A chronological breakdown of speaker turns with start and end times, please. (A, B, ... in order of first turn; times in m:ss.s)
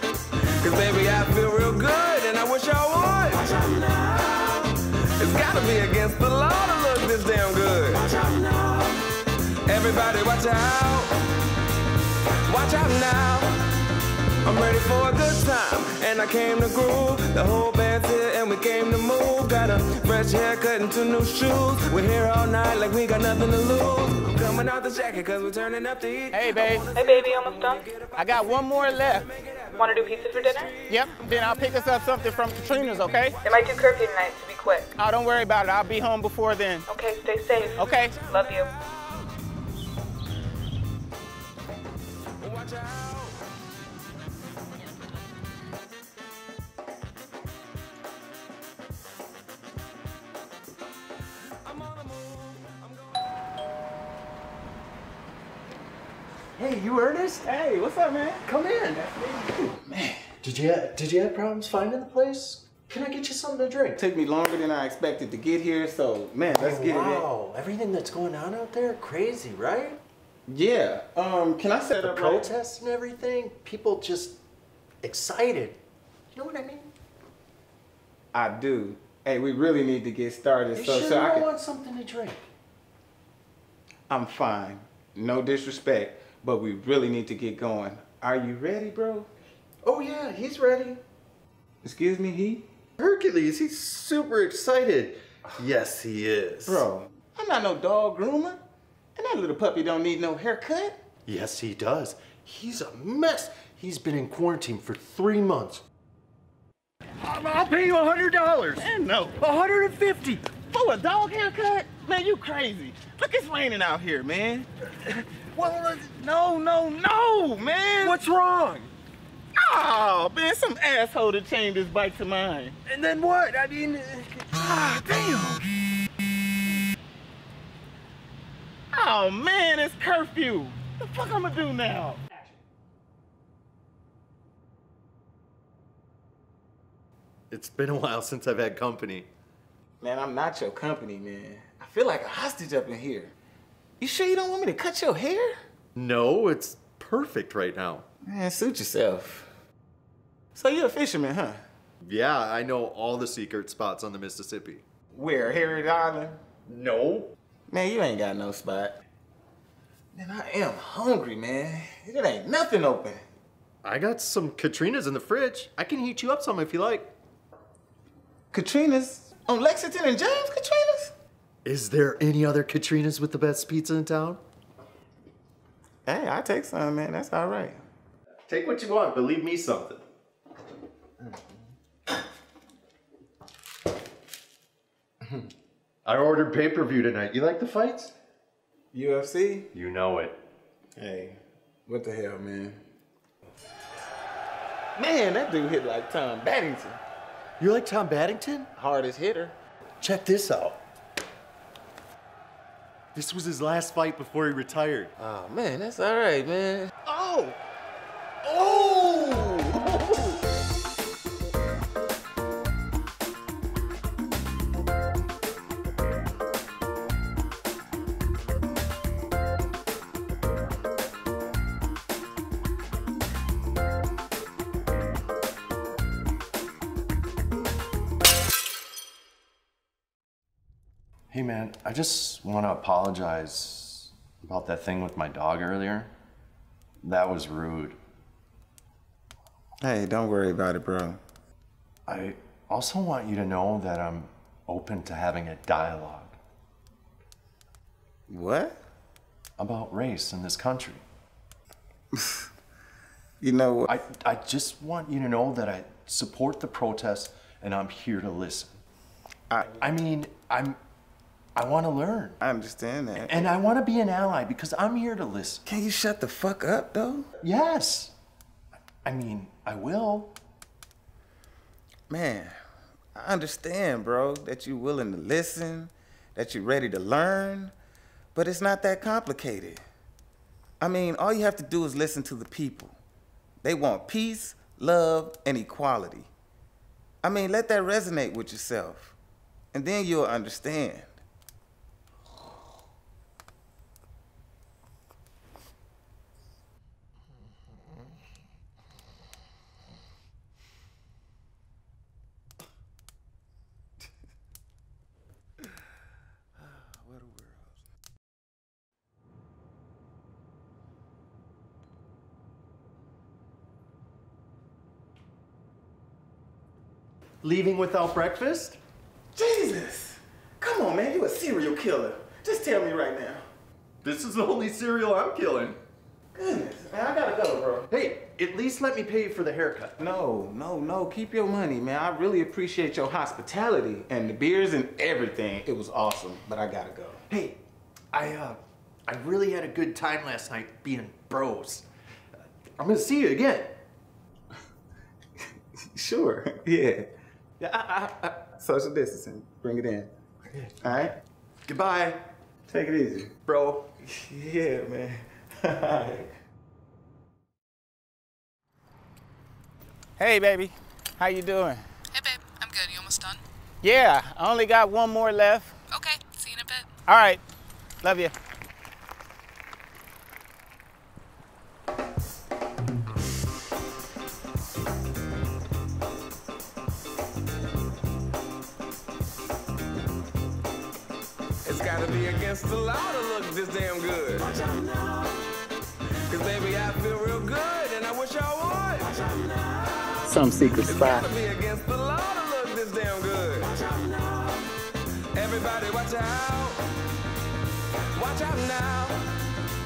0:00.4-0:11.3 A
0:12.4-0:13.9 A
0:14.4-0:31.7 A
0:26.3-0:26.9 B
0:27.0-0:27.8 C
0:28.2-0:29.3 B
0:29.8-0:30.7 C
0:30.9-0:33.4 B
0:33.4-0:34.9 C
0:35.0-0:36.9 B
0:36.9-0:38.7 C
0:37.8-0:39.3 A
0:37.8-0:38.2 B
0:42.4-0:43.4 A
0:51.6-0:53.3 A
0:56.6-0:57.5 D
0:57.4-0:58.5 B
0:58.4-0:59.4 D
0:59.4-1:00.3 B
1:00.4-1:04.0 D
1:04.0-1:07.3 B
1:06.5-1:10.0 D
1:10.5-1:12.5 B
1:12.0-1:14.4 D
1:15.0-1:15.8 D
1:16.3-1:16.9 D
1:18.3-1:21.5 B
1:20.7-1:22.4 D
1:24.1-1:29.3 B
1:29.8-1:31.0 D
1:31.8-1:32.6 B
1:33.0-1:36.9 D
1:36.6-1:38.6 B
1:39.2-1:41.0 B
1:41.3-1:45.8 D
1:47.2-1:50.5 D
1:48.8-1:49.4 B
1:50.7-1:54.7 B
1:55.3-1:56.1 D
1:56.0-1:58.2 B
1:58.0-1:58.9 D
1:59.6-2:02.8 B
2:02.9-2:04.6 D
2:04.5-2:05.7 B
2:08.9-2:12.2 B
2:17.5-2:19.3 D
2:20.0-2:23.3 B
2:24.0-2:25.6 B
2:26.0-2:28.0 D
2:28.2-2:29.5 B
2:30.6-2:31.6 B
2:32.0-2:34.8 D
2:35.1-2:36.4 B
2:36.7-2:37.3 D
2:37.7-2:39.0 B
2:40.1-2:43.2 B
2:43.8-2:47.1 D
2:48.5-2:51.1 B
2:51.6-2:54.4 D
2:56.1-2:57.8 B
2:58.5-3:00.0 D
3:01.2-3:01.5 B
3:06.0-3:08.1 D
3:08.9-3:09.7 B
3:09.7-3:10.4 D
3:11.0-3:12.8 B
3:15.0-3:17.0 B
3:17.6-3:18.7 D
3:18.8-3:19.6 B
3:20.0-3:20.8 D
3:23.2-3:25.1 D
3:25.2-3:27.6 B
3:28.4-3:30.4 B
3:51.3-3:56.1 D
3:57.0-3:58.0 D
3:59.8-4:01.2 B
4:02.1-4:06.4 D
4:08.3-4:08.8 B
4:09.6-4:11.0 D
4:12.2-4:12.5 B
4:13.4-4:14.0 B
4:13.9-4:18.8 D
4:19.5-4:19.8 B
4:19.6-4:20.8 D
4:21.6-4:22.4 D
4:22.4-4:23.5 B
4:23.2-4:25.6 D
4:25.7-4:27.3 B
4:27.4-4:28.1 D
4:29.0-4:30.4 D
4:32.1-4:32.6 B
4:33.2-4:37.7 B
4:38.3-4:39.8 B
4:40.8-4:43.0 B
4:43.6-4:46.3 B
4:47.2-4:49.2 B
4:49.7-4:51.2 B
5:06.6-5:07.7 D
5:17.4-5:18.8 D
5:19.4-5:23.4 B
5:24.0-5:25.8 D
5:26.3-5:27.9 B
5:27.9-5:30.0 D
5:30.0-5:37.2 B
5:37.3-5:37.6 D
5:38.1-5:41.9 D
5:42.8-5:43.8 D
5:45.9-5:47.1 B
5:47.6-5:50.1 B
5:50.5-5:50.9 D
5:50.8-5:51.2 B
5:51.7-5:52.2 D
5:52.7-5:53.3 B
5:53.5-5:53.9 D
5:54.0-5:56.3 B
6:00.2-6:01.8 B
6:02.6-6:03.2 C
6:03.8-6:05.8 B
6:07.0-6:07.4 B
6:08.0-6:08.3 B
6:21.6-6:25.4 A
6:26.3-6:30.2 A
6:30.3-6:31.3 B
6:30.8-6:36.8 A
6:38.1-6:39.5 A